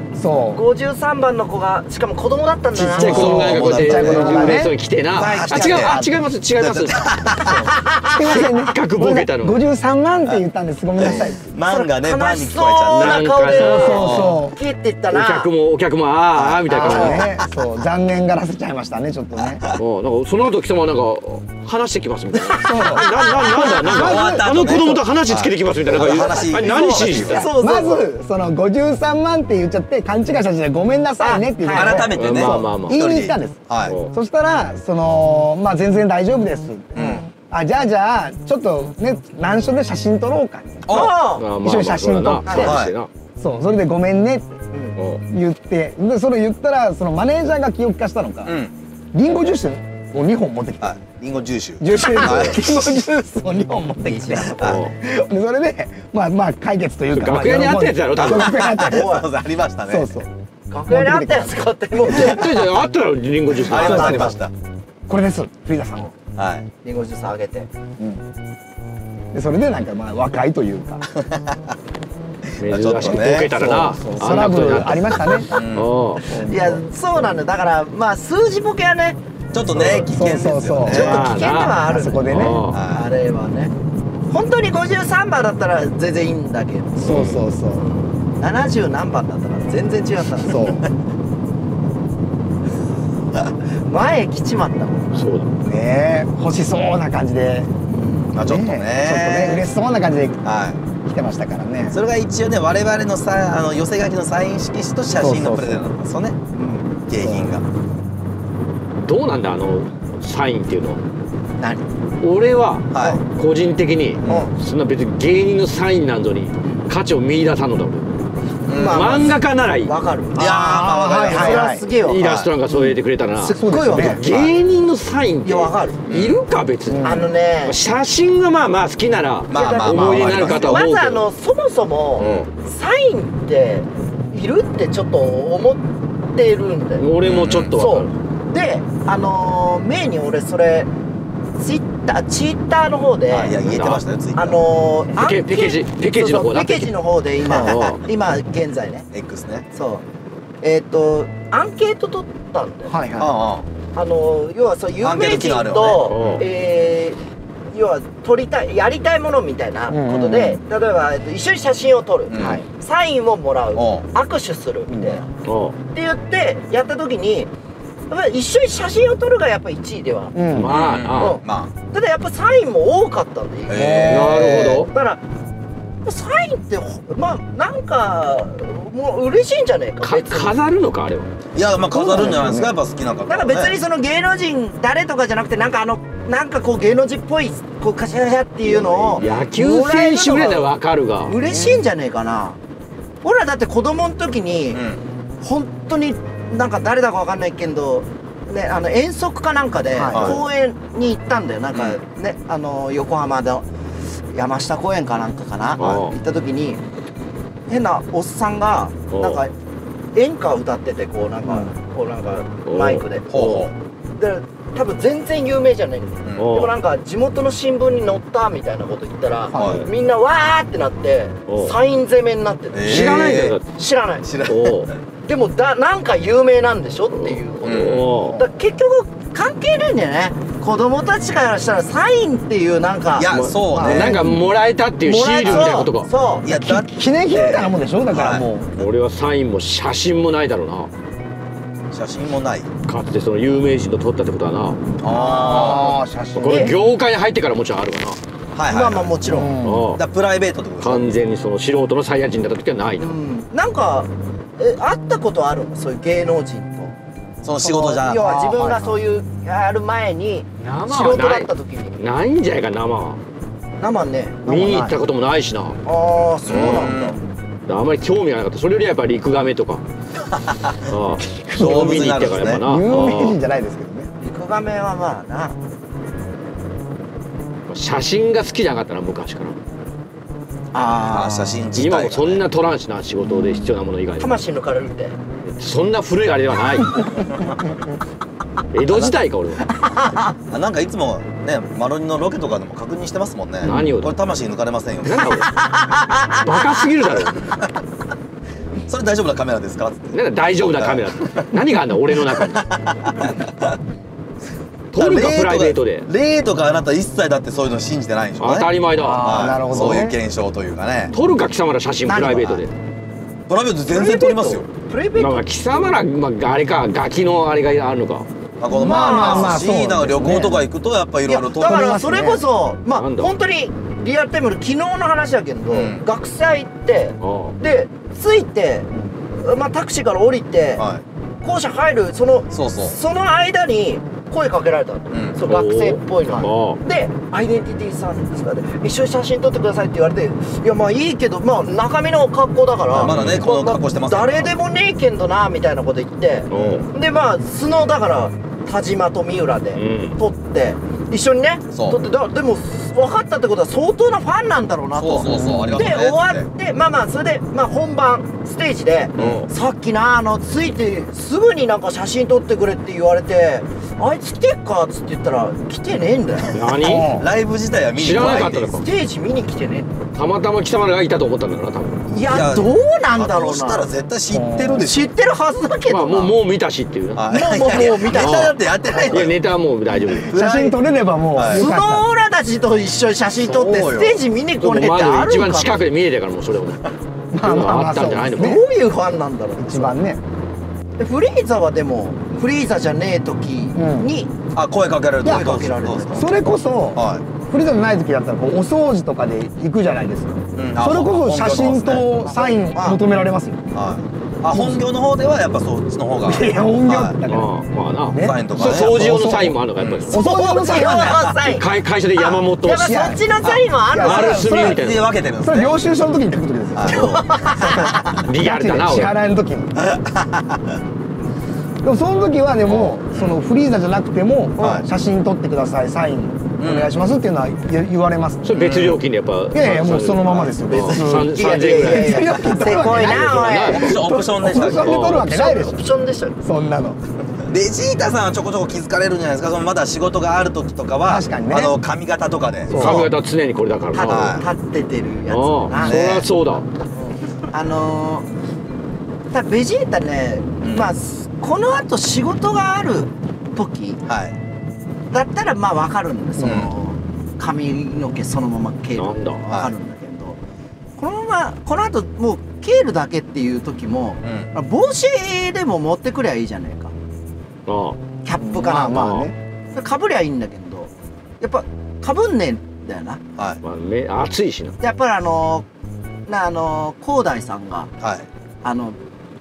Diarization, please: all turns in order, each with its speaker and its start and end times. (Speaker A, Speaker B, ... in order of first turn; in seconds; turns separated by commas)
Speaker A: 0.1-0.6, Speaker B: 0.5-3.6, Speaker C: 2.7-7.1, Speaker D: 3.0-6.0, Speaker A: 3.0-4.7, Speaker B: 5.2-6.1, Speaker D: 6.6-7.7, Speaker A: 7.5-11.5, Speaker B: 7.9-8.2, Speaker C: 8.1-9.6, Speaker D: 11.0-14.4, Speaker B: 11.7-15.5, Speaker C: 12.9-14.3, Speaker A: 13.6-14.5, Speaker C: 15.1-17.3, Speaker D: 16.3-17.5, Speaker A: 16.7-19.6, Speaker D: 19.4-19.8, Speaker C: 19.8-27.5, Speaker D: 22.5-22.9, Speaker A: 22.6-24.8, Speaker D: 23.6-27.5, Speaker B: 26.6-28.1, Speaker A: 27.6-41.1, Speaker B: 31.2-32.1, Speaker D: 31.7-34.0, Speaker C: 32.1-33.0, Speaker C: 33.9-34.1, Speaker D: 37.0-37.2, Speaker D: 40.9-41.1, Speaker B: 40.9-41.4, Speaker C: 41.2-43.1, Speaker A: 41.6-42.8, Speaker B: 42.5-42.7, Speaker D: 42.6-42.9, Speaker A: 43.4-44.6, Speaker B: 44.7-45.0, Speaker C: 45.0-45.2, Speaker A: 45.3-48.5, Speaker D: 48.4-48.7, Speaker A: 49.1-51.0, Speaker D: 50.8-53.0, Speaker A: 51.8-59.2, Speaker B: 54.0-54.6, Speaker D: 54.6-54.9, Speaker C: 54.6-54.9, Speaker C: 57.1-58.7, Speaker D: 57.2-60.2, Speaker B: 58.7-59.2, Speaker A: 59.9-60.3, Speaker B: 60.7-62.6, Speaker A: 60.9-61.6, Speaker C: 62.0-64.3, Speaker D: 63.6-64.5, Speaker A: 63.7-64.3, Speaker B: 63.9-64.3, Speaker A: 65.1-66.1, Speaker D: 66.3-66.7, Speaker B: 66.8-67.7, Speaker A: 69.3-71.1, Speaker D: 71.2-71.8, Speaker C: 72.6-76.2, Speaker D: 72.6-73.6, Speaker A: 73.0-75.6, Speaker D: 75.4-75.9, Speaker A: 76.2-76.8, Speaker B: 76.3-80.1, Speaker D: 79.5-81.3, Speaker A: 80.1-82.6, Speaker B: 80.8-83.7, Speaker C: 80.9-82.8, Speaker D: 82.7-83.1, Speaker B: 84.3-90.8, Speaker A: 87.0-87.8, Speaker C: 87.0-87.4, Speaker A: 90.4-90.8, Speaker B: 93.7-95.2, Speaker C: 95.1-95.5, Speaker A: 95.6-100.4, Speaker B: 97.9-98.3, Speaker D: 98.3-99.7, Speaker D: 100.4-100.8, Speaker A: 101.0-102.0, Speaker D: 101.9-106.5, Speaker A: 105.2-105.9, Speaker A: 106.5-107.5, Speaker D: 107.1-107.6, Speaker C: 109.0-111.0, Speaker B: 111.6-111.8, Speaker C: 112.2-118.1, Speaker D: 112.9-113.2, Speaker D: 114.2-114.5, Speaker D: 118.7-119.4, Speaker B: 118.7-120.4, Speaker C: 118.8-119.9, Speaker A: 120.3-121.8, Speaker D: 120.3-122.5, Speaker B: 121.2-122.2, Speaker C: 122.0-127.1, Speaker B: 123.4-124.5, Speaker A: 123.6-124.2, Speaker B: 125.4-126.0, Speaker D: 126.1-126.4, Speaker A: 126.9-127.3, Speaker B: 127.0-127.8, Speaker C: 127.6-131.2, Speaker D: 129.5-130.9, Speaker B: 129.5-137.1, Speaker D: 132.2-132.5, Speaker C: 137.0-138.1, Speaker D: 137.2-137.7, Speaker B: 137.7-140.9, Speaker B: 141.6-143.6, Speaker D: 143.3-144.6, Speaker C: 143.6-144.0, Speaker B: 144.3-149.1, Speaker C: 145.1-146.9, Speaker D: 147.5-147.9, Speaker C: 147.6-148.0, Speaker D: 149.1-149.7, Speaker B: 149.7-150.0, Speaker B: 150.6-153.0, Speaker A: 152.9-153.3, Speaker D: 153.2-153.7, Speaker B: 153.9-157.2, Speaker D: 155.0-156.4, Speaker C: 156.1-156.4, Speaker B: 157.7-165.3, Speaker A: 159.9-160.6, Speaker D: 162.3-162.6, Speaker A: 162.4-162.6, Speaker D: 163.7-164.1, Speaker A: 164.9-165.2, Speaker C: 165.4-165.8, Speaker B: 165.9-167.5, Speaker B: 168.1-170.4, Speaker A: 170.3-170.7, Speaker C: 170.5-171.4, Speaker D: 170.6-171.7, Speaker B: 171.2-175.2, Speaker D: 173.7-174.9, Speaker A: 173.7-174.5, Speaker C: 174.1-174.9, Speaker B: 176.0-180.6, Speaker C: 180.0-181.3, Speaker D: 181.5-183.8, Speaker A: 181.9-182.8, Speaker B: 183.3-190.7, Speaker D: 188.8-189.5, Speaker C: 189.0-191.3, Speaker B: 191.2-192.6, Speaker D: 191.4-191.8, Speaker B: 193.2-194.8, Speaker D: 194.7-195.0, Speaker B: 195.4-203.7, Speaker A: 199.9-200.4, Speaker D: 200.1-200.4, Speaker D: 201.7-202.0, Speaker B: 204.3-206.8, Speaker C: 205.8-206.1, Speaker B: 207.7-209.5, Speaker C: 209.1-209.4, Speaker B: 210.1-213.3, Speaker A: 211.4-211.7, Speaker C: 212.7-213.7, Speaker D: 213.3-213.7, Speaker B: 214.2-224.2, Speaker D: 216.2-216.6, Speaker C: 216.4-216.7, Speaker A: 219.5-219.8, Speaker D: 219.5-219.8, Speaker C: 221.5-221.7, Speaker D: 222.7-223.6, Speaker C: 222.9-223.6, Speaker D: 224.2-224.9, Speaker C: 224.5-224.9, Speaker B: 225.2-233.3, Speaker C: 227.1-228.4, Speaker D: 227.6-228.2, Speaker D: 233.2-234.4, Speaker C: 233.3-236.1, Speaker A: 233.7-234.3, Speaker B: 235.0-236.5, Speaker D: 236.4-238.8, Speaker A: 236.5-238.7, Speaker C: 238.8-240.9, Speaker D: 241.9-242.7, Speaker C: 242.8-244.8, Speaker A: 245.0-246.7, Speaker D: 245.0-246.0, Speaker B: 245.2-245.7, Speaker C: 246.3-248.2, Speaker D: 248.5-249.3, Speaker B: 248.7-249.6, Speaker A: 249.2-249.9, Speaker C: 249.6-250.0, Speaker D: 249.9-251.2, Speaker C: 250.8-253.1, Speaker B: 253.0-256.9, Speaker D: 257.4-258.3, Speaker A: 257.6-259.0, Speaker B: 258.0-262.0, Speaker C: 260.6-263.2, Speaker B: 263.8-264.5, Speaker A: 264.4-265.0, Speaker C: 264.4-265.8, Speaker B: 265.8-267.2, Speaker D: 266.5-267.2, Speaker C: 266.5-266.9, Speaker C: 267.7-269.8, Speaker D: 270.3-270.9, Speaker C: 270.9-273.4, Speaker D: 271.5-272.6, Speaker A: 272.6-274.1, Speaker B: 274.2-275.6, Speaker C: 277.7-279.6, Speaker B: 280.7-281.6, Speaker D: 281.1-282.4, Speaker C: 281.7-284.4, Speaker A: 283.2-283.7, Speaker B: 284.2-285.1, Speaker C: 285.4-287.0, Speaker D: 287.2-287.6, Speaker C: 288.7-289.7, Speaker B: 289.9-290.2, Speaker D: 290.5-295.5, Speaker C: 293.6-294.2, Speaker C: 295.0-295.5, Speaker B: 295.4-296.7, Speaker C: 296.4-297.4, Speaker D: 297.4-297.8, Speaker D: 298.9-301.6, Speaker C: 300.1-302.6, Speaker D: 302.3-303.8, Speaker C: 304.9-306.1, Speaker D: 304.9-311.1, Speaker C: 308.4-310.1, Speaker A: 309.0-310.2, Speaker C: 311.1-312.7, Speaker B: 312.1-312.6, Speaker D: 313.5-314.6, Speaker B: 313.9-316.0, Speaker C: 315.1-318.2, Speaker D: 318.6-322.0, Speaker A: 318.7-320.7, Speaker B: 318.8-319.6, Speaker B: 321.3-330.9, Speaker A: 321.6-322.4, Speaker C: 322.9-323.3, Speaker D: 325.7-326.0, Speaker C: 327.2-327.6, Speaker D: 330.8-331.0, Speaker B: 331.4-366.6, Speaker D: 332.5-332.9, Speaker D: 335.1-335.4, Speaker C: 335.4-336.8, Speaker D: 342.9-344.6, Speaker C: 343.0-343.4, Speaker C: 346.5-346.9, Speaker D: 346.5-346.9, Speaker C: 349.7-350.2, Speaker D: 351.7-352.0, Speaker D: 354.9-356.5, Speaker A: 355.3-355.9, Speaker C: 359.1-359.5, Speaker D: 359.2-359.5, Speaker C: 366.5-367.2, Speaker A: 366.8-367.3, Speaker D: 366.9-368.8, Speaker C: 368.0-368.9, Speaker B: 368.7-369.9, Speaker C: 370.1-372.1, Speaker B: 372.1-373.9, Speaker D: 372.1-375.1, Speaker A: 374.3-374.9, Speaker B: 374.8-376.3, Speaker C: 375.9-378.5, Speaker D: 377.1-379.4, Speaker B: 377.3-379.2, Speaker C: 379.1-380.3, Speaker D: 380.1-380.8, Speaker A: 380.3-382.0, Speaker D: 381.3-381.7, Speaker B: 381.5-385.8, Speaker D: 383.4-384.2, Speaker C: 384.6-386.9, Speaker A: 387.3-388.6, Speaker C: 387.4-388.6, Speaker B: 388.3-390.0, Speaker A: 389.6-390.2, Speaker B: 391.0-394.3, Speaker A: 393.8-394.1, Speaker D: 394.5-396.4, Speaker B: 395.2-396.3, Speaker A: 396.1-403.7, Speaker D: 396.9-397.2, Speaker D: 400.6-402.2, Speaker B: 402.2-403.0, Speaker D: 403.7-407.1, Speaker A: 404.5-404.8, Speaker A: 406.2-407.5, Speaker C: 407.3-410.2, Speaker A: 408.1-409.6, Speaker D: 408.2-409.1, Speaker D: 409.8-410.1, Speaker A: 410.1-411.4, Speaker B: 410.1-414.6, Speaker C: 411.4-413.0, Speaker A: 412.8-413.2, Speaker A: 413.9-414.8, Speaker C: 414.0-415.1, Speaker D: 414.4-415.7, Speaker A: 415.4-417.1, Speaker D: 416.8-418.2, Speaker B: 416.9-418.2, Speaker C: 418.2-419.1, Speaker A: 418.3-419.8, Speaker D: 419.8-420.8, Speaker A: 421.8-428.6, Speaker D: 422.7-423.4, Speaker D: 424.6-424.8, Speaker D: 426.6-426.9, Speaker C: 428.4-434.0, Speaker D: 428.5-429.0, Speaker A: 429.5-435.8, Speaker B: 431.1-434.0, Speaker D: 433.7-435.1, Speaker C: 434.6-435.4, Speaker B: 434.9-436.4, Speaker A: 436.4-437.0, Speaker D: 437.5-443.1, Speaker A: 441.0-441.7, Speaker A: 442.7-443.1, Speaker C: 442.7-444.4, Speaker B: 443.9-446.3, Speaker D: 444.1-444.4, Speaker C: 445.3-446.6, Speaker D: 445.8-446.3, Speaker B: 446.9-448.3, Speaker B: 449.3-454.0, Speaker D: 450.6-450.9, Speaker D: 454.1-454.3, Speaker B: 455.1-460.4, Speaker D: 456.4-456.7, Speaker C: 459.0-459.4, Speaker B: 461.0-466.9, Speaker D: 464.2-464.5, Speaker C: 467.7-468.0, Speaker B: 468.2-469.1, Speaker A: 468.4-469.3, Speaker C: 468.8-469.3, Speaker B: 469.7-473.2, Speaker C: 473.6-474.8, Speaker B: 474.8-475.7, Speaker B: 476.3-477.9, Speaker D: 478.0-478.2, Speaker B: 478.6-479.0